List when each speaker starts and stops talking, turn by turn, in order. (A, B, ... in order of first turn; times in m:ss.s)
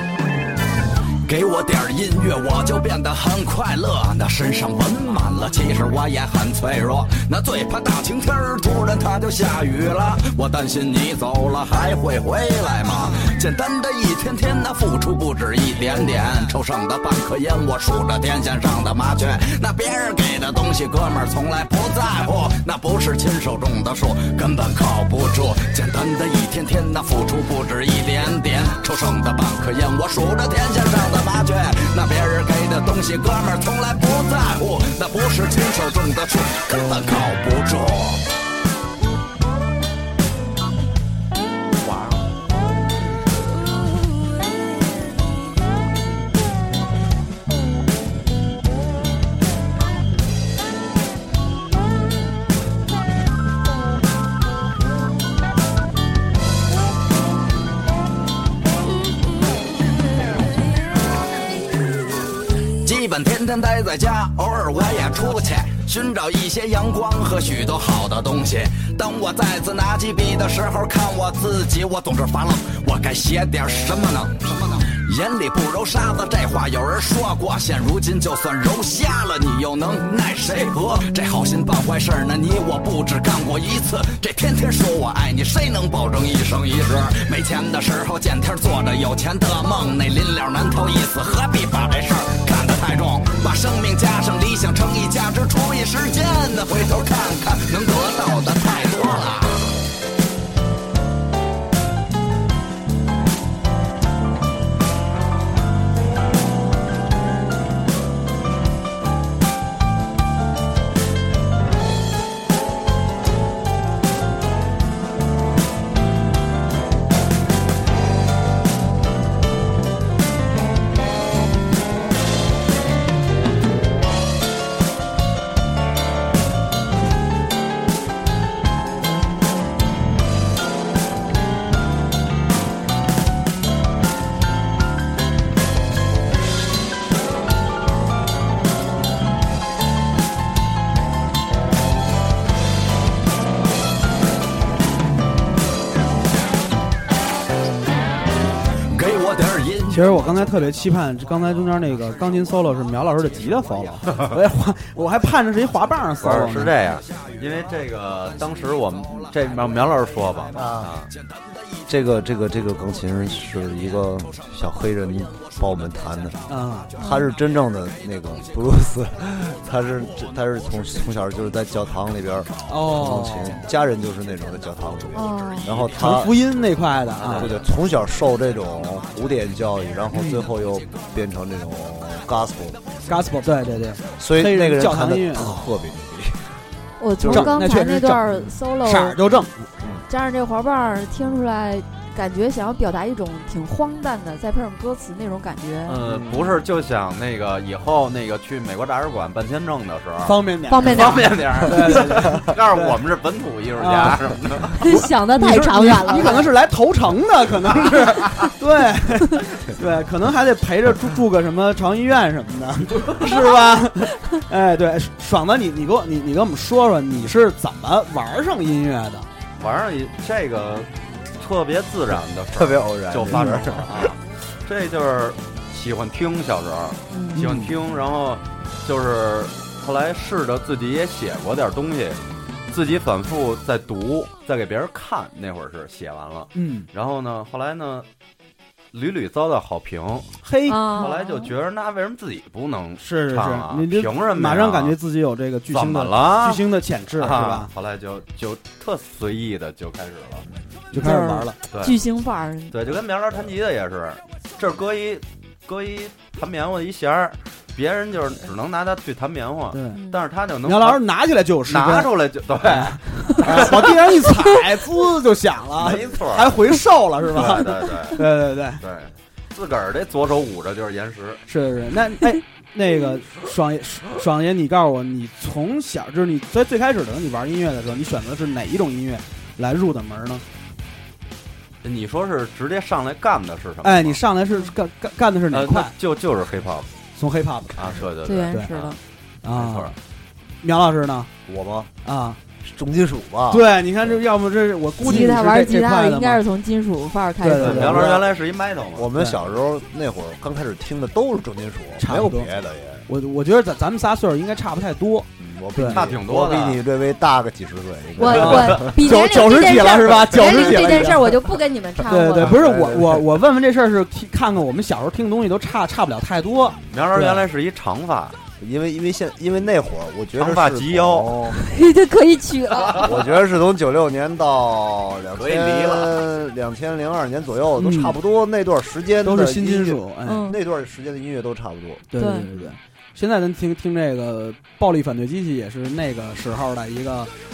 0:01.2-0:38.2 A
0:41.8-0:42.3 B
1:02.8-1:39.7 A
2:28.9-2:30.0 A
2:29.9-2:36.8 C
2:36.2-2:41.1 B
2:40.5-2:40.9 D
2:41.9-2:46.4 D
2:46.5-2:46.9 C
2:47.0-2:47.3 E
2:47.0-2:56.4 D
2:52.7-2:53.6 C
2:55.1-2:55.7 E
2:55.9-2:57.5 C
2:57.2-2:57.5 B
2:57.3-3:02.8 D
3:00.1-3:00.5 C
3:03.1-3:05.5 C
3:04.2-3:06.4 D
3:07.0-3:09.2 E
3:07.2-3:07.6 D
3:07.3-3:09.7 C
3:09.8-3:10.0 D
3:10.1-3:16.0 E
3:15.9-3:24.8 B
3:16.1-3:16.5 C
3:20.2-3:23.0 C
3:20.7-3:21.5 E
3:23.8-3:24.3 C
3:24.8-3:26.5 E
3:24.9-3:39.3 C
3:39.6-3:58.1 B
3:42.5-3:44.1 D
3:43.3-3:43.6 C
3:47.1-3:47.4 E
3:47.4-3:47.7 C
3:56.6-3:56.9 C
3:58.9-4:00.3 B
4:00.4-4:01.0 C
4:00.7-4:01.5 E
4:00.9-4:05.0 B
4:03.0-4:07.7 C
4:05.7-4:06.6 B
4:07.2-4:10.5 B
4:10.9-4:11.6 C
4:11.0-4:12.8 E
4:11.7-4:12.0 B
4:12.7-4:21.0 B
4:19.7-4:20.0 C
4:20.0-4:20.2 E
4:20.6-4:28.8 C
4:21.7-4:23.0 B
4:23.5-4:23.8 B
4:25.8-4:26.6 B
4:27.3-4:28.2 B
4:28.8-4:31.4 B
4:31.5-4:40.4 C
4:41.8-4:44.2 B
4:43.8-4:45.9 C
4:45.5-4:46.9 B
4:47.2-4:48.7 C
4:47.8-4:50.0 B
4:48.2-4:49.0 E
4:49.4-4:50.0 C
4:50.6-4:51.3 C
4:51.5-4:51.9 D
4:52.0-4:52.4 C
4:52.6-4:53.8 D
4:53.5-4:56.4 C
4:55.0-4:57.9 E
4:57.4-4:58.2 C
4:57.6-4:59.1 B
4:59.0-5:03.1 D
4:59.1-4:59.4 C
5:02.0-5:02.5 C
5:03.1-5:06.0 C
5:05.4-5:09.0 D
5:05.9-5:06.8 B
5:08.2-5:12.6 E
5:08.3-5:11.3 C
5:12.1-5:17.4 C
5:12.5-5:13.2 D
5:16.9-5:18.4 B
5:18.6-5:21.6 D
5:20.4-5:21.3 B
5:21.5-5:23.1 E
5:23.0-5:32.1 D
5:25.4-5:26.0 B
5:27.8-5:28.2 C
5:29.2-5:30.4 C
5:30.2-5:30.6 E
5:32.1-5:37.3 C
5:32.2-5:32.5 E